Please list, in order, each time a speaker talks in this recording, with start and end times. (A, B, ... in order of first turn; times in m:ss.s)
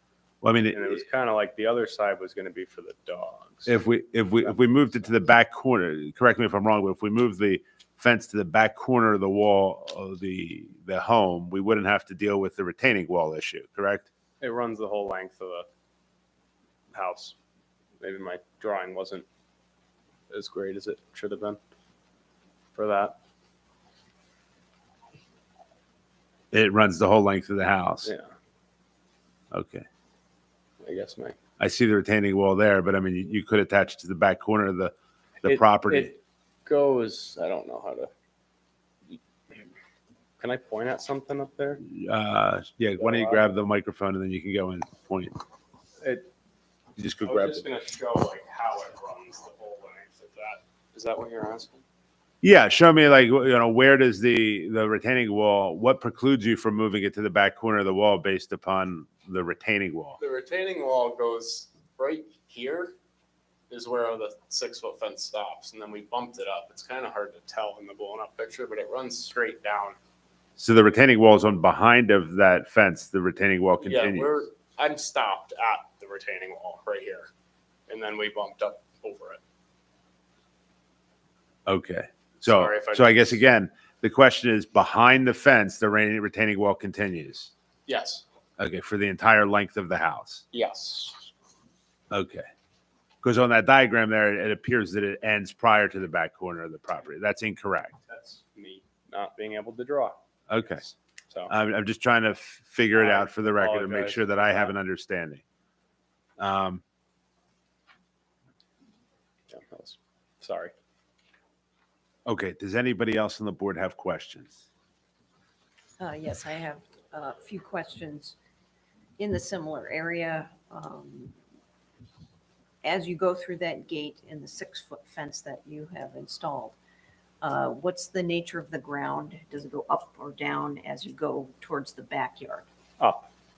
0:00.4-0:01.0 A
0:00.7-0:03.8 B
0:03.6-0:14.1 A
0:04.4-0:05.0 B
0:14.4-0:15.6 B
0:16.9-0:17.4 B
0:18.0-0:19.2 B
0:20.3-0:21.6 B
0:22.7-0:23.2 B
0:26.5-0:28.1 A
0:28.0-0:28.3 B
0:29.5-0:29.8 A
0:30.8-0:31.4 B
0:31.6-0:36.1 A
0:35.4-0:38.1 B
0:40.4-0:41.8 B
0:41.8-0:45.4 A
0:43.0-0:43.4 B
0:46.0-0:46.3 B
0:47.0-0:47.6 A
0:47.2-0:51.8 B
0:52.4-1:00.2 A
1:00.2-1:02.9 B
1:03.7-1:10.0 B
1:10.6-1:14.3 A
1:13.8-1:17.3 B
1:17.9-1:19.4 B
1:21.7-1:27.5 A
1:22.4-1:23.4 B
1:27.9-1:28.2 B
1:28.6-1:30.4 A
1:30.5-1:31.2 B
1:32.1-1:32.5 A
1:33.2-1:38.0 A
1:38.1-1:40.2 B
1:40.5-1:40.8 A
1:40.8-1:41.5 B
1:41.5-1:45.4 A
1:42.9-1:44.7 B
1:46.4-1:46.8 A
1:49.5-1:50.7 B
1:52.2-1:54.6 A
1:56.0-1:58.4 C
1:59.2-2:01.3 C
2:02.8-2:06.8 C
2:07.4-2:12.6 C
2:13.0-2:13.2 B